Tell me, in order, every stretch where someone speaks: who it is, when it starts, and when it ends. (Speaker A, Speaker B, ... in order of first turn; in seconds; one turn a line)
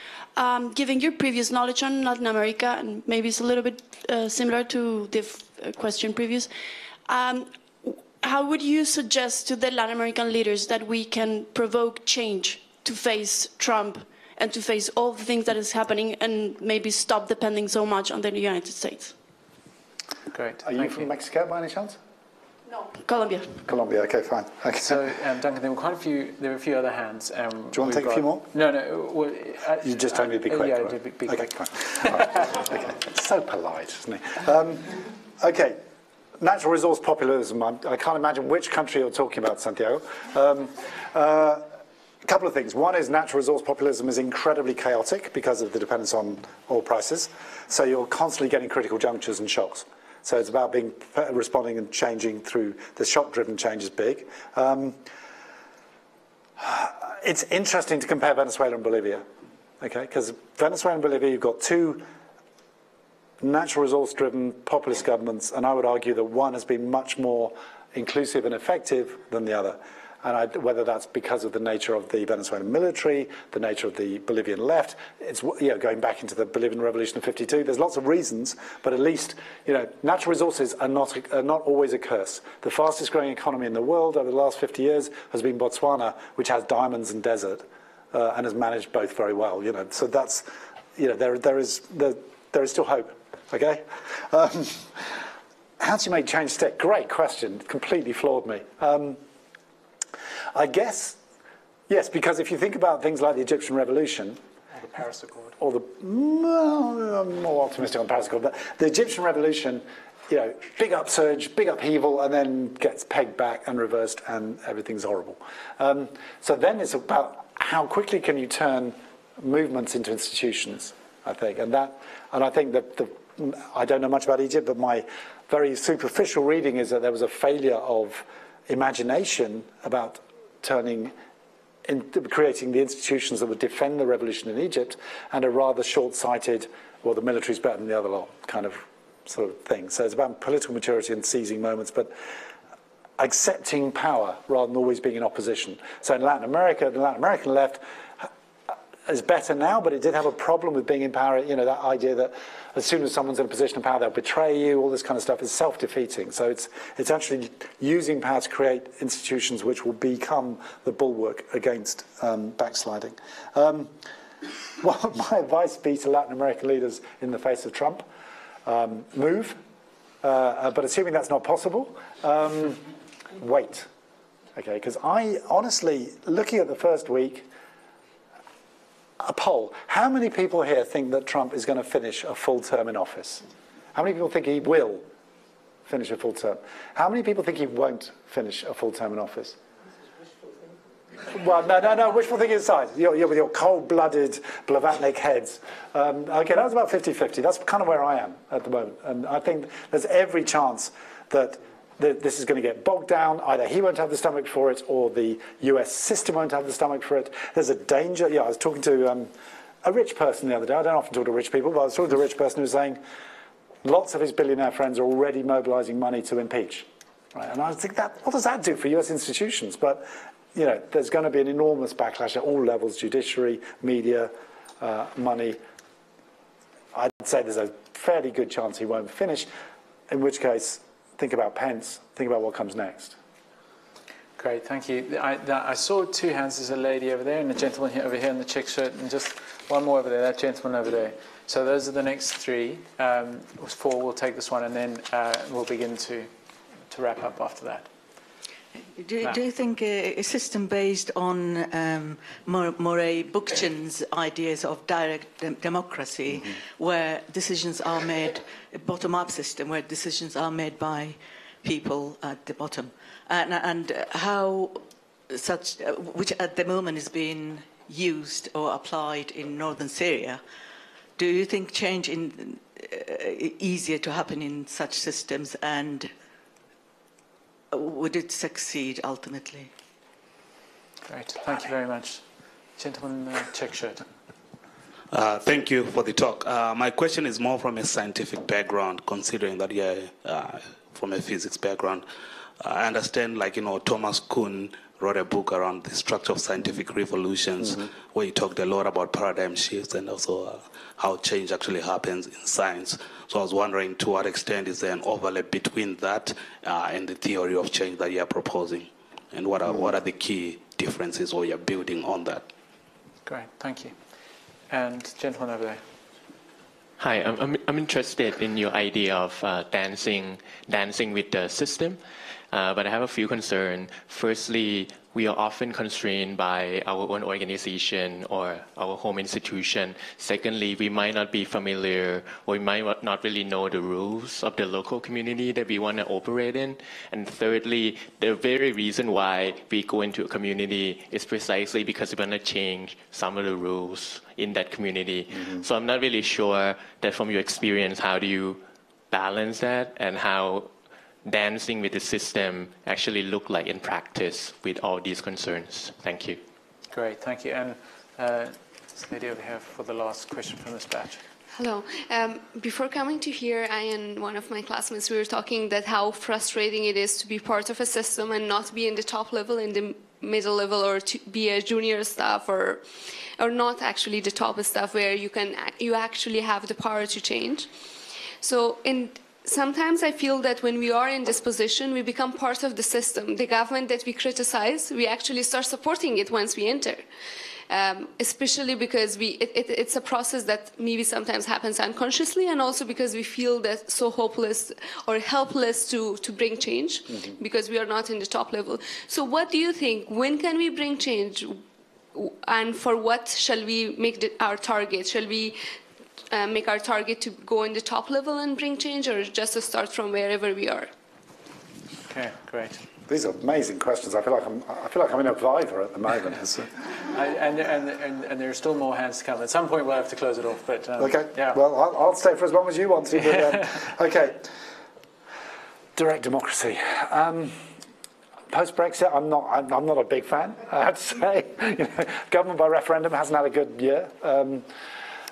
Speaker A: 0.3-6.5
Speaker A: 7.0-19.1
Speaker B: 20.3-21.1
Speaker C: 20.6-22.0
Speaker A: 22.7-23.6
Speaker C: 23.6-25.0
Speaker B: 24.7-32.5
Speaker C: 27.7-28.5
Speaker C: 29.8-35.8
Speaker C: 36.4-41.6
Speaker C: 42.2-55.0
Speaker C: 56.6-59.2
Speaker C: 59.8-62.0
Speaker C: 63.4-95.2
Speaker C: 95.8-99.2
Speaker C: 100.5-101.2
Speaker C: 101.9-104.4
Speaker B: 104.9-105.5
Speaker C: 105.6-131.1
Speaker C: 131.8-142.1
Speaker C: 143.2-148.3
Speaker C: 149.1-163.9
Speaker C: 164.8-168.1
Speaker C: 168.6-169.6
Speaker C: 170.2-172.8
Speaker C: 173.3-173.9
Speaker C: 174.5-177.5
Speaker C: 179.2-185.0
Speaker C: 185.8-189.6
Speaker C: 191.2-209.3
Speaker C: 209.8-213.0
Speaker C: 213.8-225.6
Speaker C: 226.9-229.5
Speaker C: 230.1-233.2
Speaker B: 234.4-246.3
Speaker B: 246.9-247.9
Speaker D: 249.0-270.4
Speaker D: 271.2-276.1
Speaker D: 277.7-279.7
Speaker B: 281.1-282.2
Speaker B: 282.8-284.0
Speaker E: 285.1-292.1
Speaker E: 292.6-312.4
Speaker B: 313.2-313.9
Speaker B: 314.7-315.8
Speaker F: 317.0-322.0
Speaker F: 322.5-350.7
Speaker F: 351.2-356.4
Speaker B: 356.9-361.2
Speaker G: 361.5-377.7
Speaker G: 378.4-387.0
Speaker G: 387.7-401.6
Speaker G: 402.1-405.6
Speaker G: 406.3-410.9
Speaker B: 412.1-412.8
Speaker C: 413.1-416.7
Speaker B: 417.0-421.6
Speaker C: 421.0-424.5
Speaker C: 425.9-427.6
Speaker C: 428.5-434.7